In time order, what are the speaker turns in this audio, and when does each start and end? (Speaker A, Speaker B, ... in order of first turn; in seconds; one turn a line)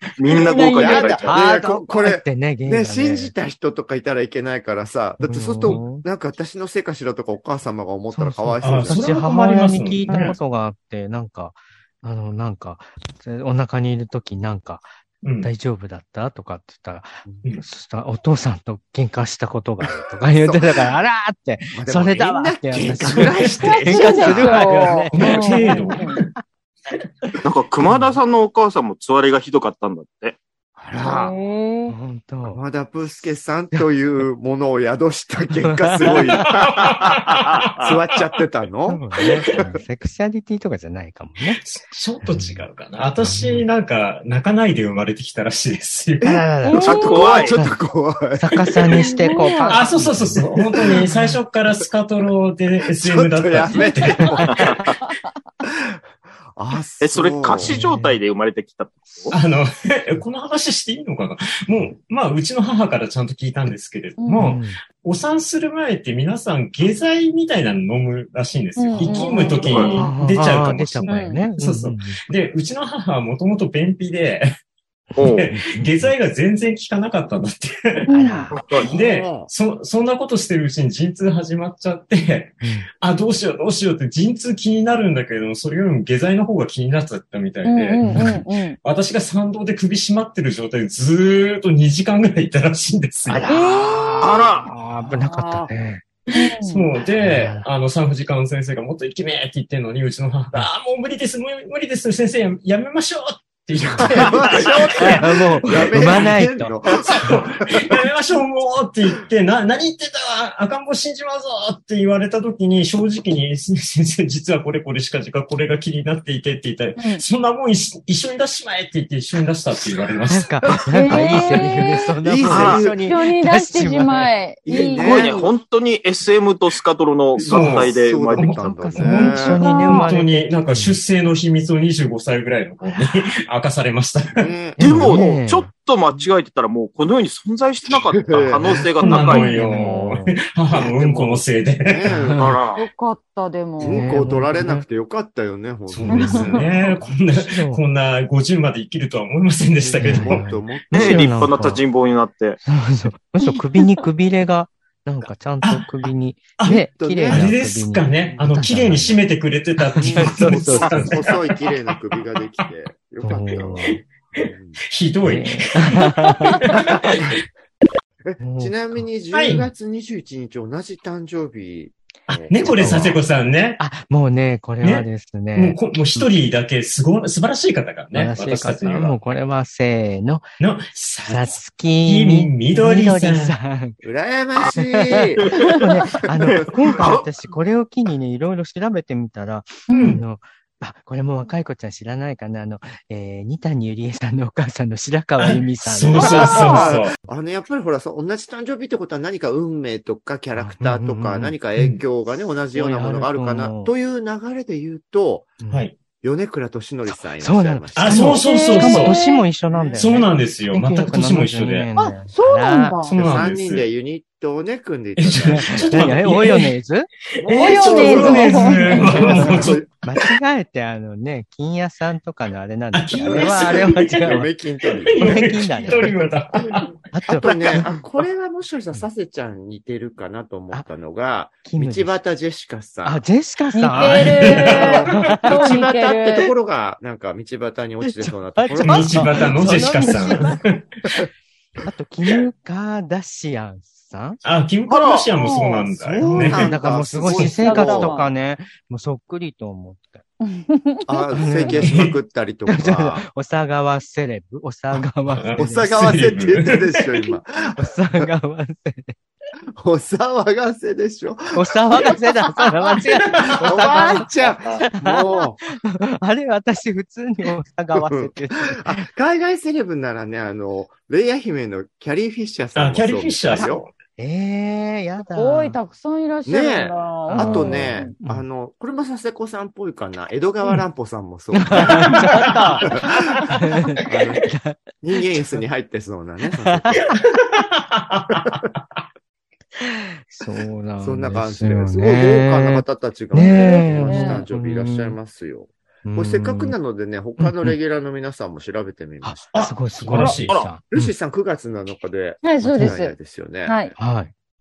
Speaker A: 0.2-1.4
Speaker B: 0.3-1.2
Speaker C: 0.6-9.1
Speaker D: 1.3-3.3
Speaker D: 5.2-6.0
Speaker D: 8.1-14.9
Speaker E: 8.6-10.4
Speaker E: 15.2-15.5
Speaker D: 15.4-26.4
Speaker C: 20.3-20.9
Speaker C: 21.7-24.6
Speaker E: 22.7-26.3
Speaker B: 23.6-26.2
Speaker A: 27.4-30.4
Speaker C: 30.8-31.3
Speaker B: 31.0-31.9
Speaker D: 31.9-32.6
Speaker C: 32.5-37.2
Speaker D: 35.6-36.3
Speaker E: 36.5-38.0
Speaker A: 36.9-37.9
Speaker C: 37.7-39.6
Speaker D: 38.9-41.6
Speaker E: 41.6-46.4
Speaker D: 42.2-42.6
Speaker D: 43.2-43.6
Speaker D: 46.2-47.8
Speaker B: 46.6-47.3
Speaker A: 46.8-47.6
Speaker C: 46.9-48.6
Speaker D: 48.3-50.5
Speaker B: 49.0-49.8
Speaker E: 49.7-54.8
Speaker C: 50.8-51.0
Speaker D: 51.1-51.3
Speaker C: 53.0-54.9
Speaker A: 54.4-54.9
Speaker C: 55.6-56.0
Speaker C: 56.5-57.8
Speaker A: 57.0-59.4
Speaker D: 57.5-58.2
Speaker E: 59.3-74.5
Speaker B: 64.2-64.5
Speaker D: 64.3-64.8
Speaker B: 68.8-70.2
Speaker D: 69.3-72.2
Speaker A: 69.6-70.0
Speaker B: 71.1-71.5
Speaker D: 75.1-76.1
Speaker A: 75.2-75.5
Speaker E: 75.2-78.1
Speaker B: 78.1-78.5
Speaker D: 78.1-78.6
Speaker A: 78.5-78.9
Speaker C: 78.7-79.5
Speaker E: 78.8-93.5
Speaker D: 82.6-82.9
Speaker B: 87.6-88.8
Speaker D: 88.0-88.4
Speaker D: 93.3-96.0
Speaker B: 93.5-94.5
Speaker A: 94.2-94.7
Speaker B: 95.1-95.7
Speaker E: 96.3-105.2
Speaker B: 96.3-96.9
Speaker D: 97.2-97.7
Speaker C: 103.8-107.8
Speaker A: 104.2-105.2
Speaker D: 105.0-107.3
Speaker E: 105.8-106.4
Speaker E: 106.9-120.5
Speaker B: 117.0-117.2
Speaker D: 120.3-124.3
Speaker B: 120.9-122.1
Speaker C: 121.3-121.6
Speaker C: 122.2-123.1
Speaker A: 122.5-122.9
Speaker B: 122.9-125.3
Speaker C: 124.6-125.5
Speaker A: 124.8-128.7
Speaker C: 127.3-129.6
Speaker E: 127.5-128.0
Speaker D: 128.3-131.0
Speaker E: 129.0-134.5
Speaker B: 129.3-130.1
Speaker D: 132.8-133.3
Speaker C: 134.3-135.2
Speaker D: 134.8-135.7
Speaker A: 134.8-139.4
Speaker C: 138.2-138.9
Speaker D: 139.0-140.4
Speaker E: 139.0-142.2
Speaker B: 139.2-139.5
Speaker C: 140.7-142.6
Speaker D: 142.1-142.5
Speaker A: 142.3-142.9
Speaker B: 142.8-144.1
Speaker D: 143.8-144.8
Speaker C: 143.8-146.9
Speaker E: 145.9-150.6
Speaker B: 146.1-146.7
Speaker D: 147.3-147.8
Speaker C: 149.8-151.3
Speaker D: 150.0-151.8
Speaker A: 150.9-152.6
Speaker D: 152.7-159.2
Speaker E: 155.6-161.7
Speaker C: 156.9-157.5
Speaker D: 159.9-161.1
Speaker C: 160.0-164.8
Speaker D: 163.2-164.0
Speaker E: 164.4-167.3
Speaker D: 165.2-166.6
Speaker C: 166.9-167.3
Speaker C: 168.2-173.2
Speaker D: 168.4-169.7
Speaker E: 169.3-169.6
Speaker E: 172.3-173.8
Speaker D: 173.8-176.3
Speaker E: 174.8-179.2
Speaker D: 178.1-180.5
Speaker E: 180.6-183.5
Speaker D: 181.2-184.0
Speaker C: 184.0-185.7
Speaker D: 184.7-196.8
Speaker A: 185.4-185.7
Speaker A: 186.5-187.2
Speaker B: 189.9-190.2
Speaker E: 189.9-190.2
Speaker E: 195.4-197.1
Speaker C: 196.2-205.5
Speaker D: 200.5-201.6
Speaker D: 202.7-203.9
Speaker D: 205.6-205.9
Speaker E: 205.7-205.9
Speaker C: 206.2-208.4
Speaker D: 207.1-213.0
Speaker E: 207.9-209.2
Speaker B: 208.4-209.4
Speaker C: 209.7-210.2
Speaker E: 209.9-211.9
Speaker B: 212.0-213.2
Speaker E: 213.1-213.8
Speaker C: 213.1-216.4
Speaker E: 215.2-216.7
Speaker D: 215.4-217.1
Speaker C: 217.4-219.9
Speaker E: 217.4-219.8
Speaker B: 217.6-219.2
Speaker D: 218.0-224.5
Speaker E: 222.9-226.9
Speaker C: 223.2-226.2
Speaker D: 225.2-226.1
Speaker D: 227.1-227.8
Speaker C: 227.3-233.2
Speaker D: 231.7-232.2
Speaker D: 233.0-235.8
Speaker B: 233.7-236.5
Speaker E: 233.9-235.4
Speaker C: 234.7-240.2
Speaker D: 238.0-240.6
Speaker E: 238.8-240.8
Speaker D: 241.8-244.4
Speaker E: 244.4-247.4
Speaker A: 244.9-245.3
Speaker B: 245.3-245.9
Speaker C: 245.9-248.2
Speaker D: 246.2-250.2
Speaker B: 247.3-248.3
Speaker B: 250.4-251.6
Speaker C: 251.0-253.2
Speaker D: 251.3-251.9
Speaker E: 251.8-252.2
Speaker D: 252.7-256.1
Speaker E: 255.3-257.2
Speaker C: 255.6-258.2
Speaker D: 257.8-259.1
Speaker C: 259.8-262.2
Speaker D: 261.5-269.1
Speaker E: 263.2-264.1
Speaker C: 263.5-265.6
Speaker C: 268.0-273.9
Speaker E: 272.8-273.9
Speaker D: 273.6-275.8
Speaker B: 275.3-278.1
Speaker C: 276.4-282.5
Speaker D: 277.3-278.4
Speaker D: 281.5-284.8
Speaker E: 281.8-283.5
Speaker C: 283.0-283.5
Speaker C: 284.0-287.0
Speaker D: 286.6-287.1
Speaker E: 287.1-288.8
Speaker D: 289.8-295.2
Speaker C: 291.0-299.7
Speaker B: 293.4-294.4
Speaker D: 296.0-296.8
Speaker D: 297.4-297.8
Speaker D: 299.2-301.1
Speaker E: 299.5-300.6
Speaker A: 300.4-300.7
Speaker C: 300.9-303.8
Speaker B: 302.4-303.9
Speaker D: 304.0-304.3